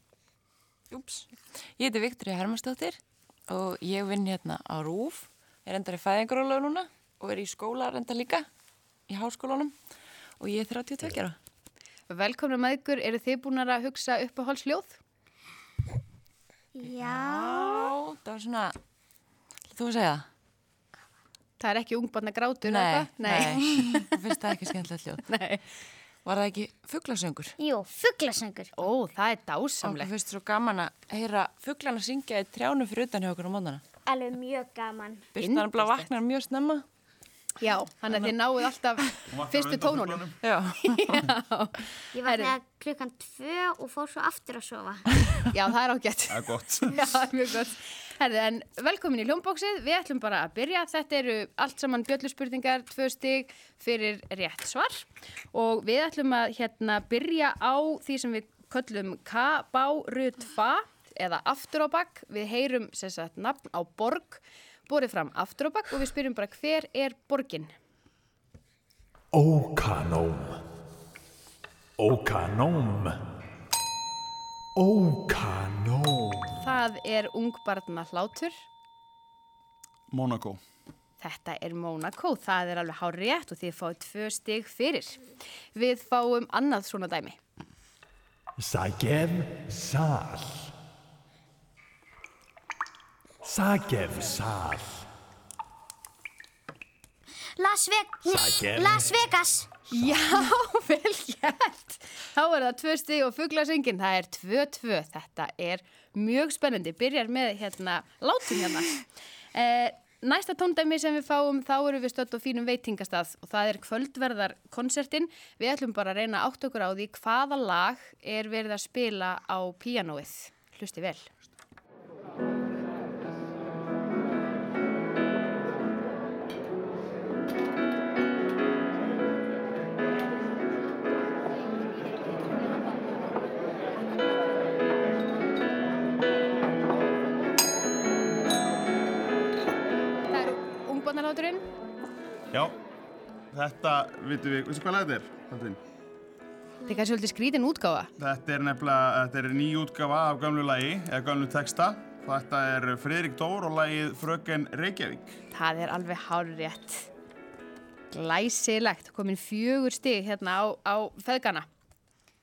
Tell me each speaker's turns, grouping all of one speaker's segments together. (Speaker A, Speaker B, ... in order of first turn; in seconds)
Speaker A: 0.9-8.5, 9.1-9.7, 10.4-11.4, 16.9-18.8, 19.7-20.2, 22.6-25.2, 26.2-27.6, 29.8-33.8, 35.3-36.8, 40.4-41.1
Speaker B: 12.1-15.0, 21.6-24.1, 25.3-25.6, 28.8-30.1, 35.4-36.1, 37.6-40.2, 40.9-42.6, 45.5-67.7, 76.6-78.6, 81.2-85.2, 85.8-87.4, 99.9-109.0, 109.5-121.3, 140.3-141.6, 146.9-148.1, 155.5-157.1, 158.1-161.7
Speaker C: 16.8-17.4, 23.6-24.0, 27.6-28.7, 34.1-35.2, 42.1-45.0, 97.6-99.7
Speaker D: 39.3-40.4, 46.3-47.0, 80.1-80.6, 143.5-145.8, 148.2-155.4
Speaker E: 69.3-70.6, 72.0-73.2, 74.8-76.5, 88.6-90.7, 93.4-95.0, 98.3-99.1